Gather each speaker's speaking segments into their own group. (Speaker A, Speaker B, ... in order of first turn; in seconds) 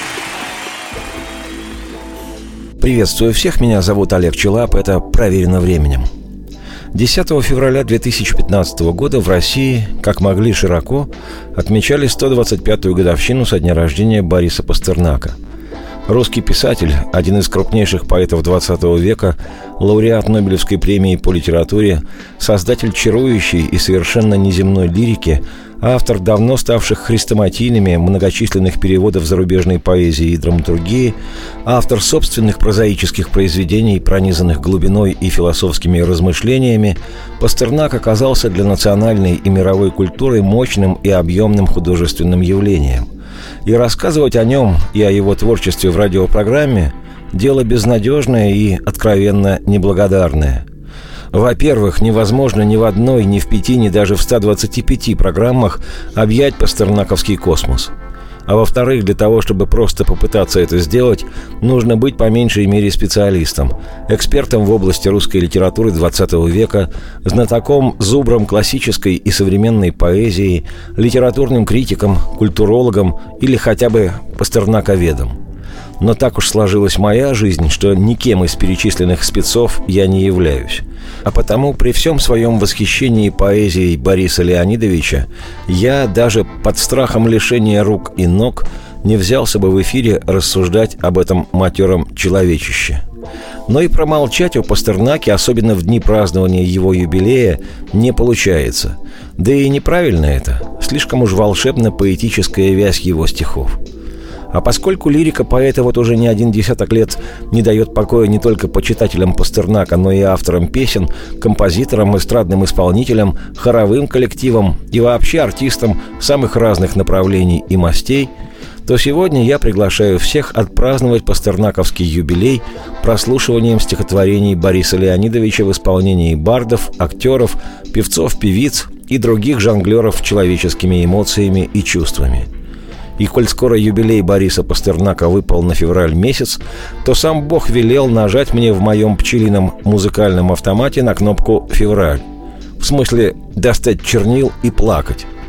Speaker A: 2.8-6.1, 6.9-15.4, 16.1-43.1, 43.6-50.6, 51.3-57.9, 58.5-75.4, 76.0-93.0, 93.7-103.8, 104.5-118.3, 118.8-132.5, 133.2-142.2, 142.8-145.3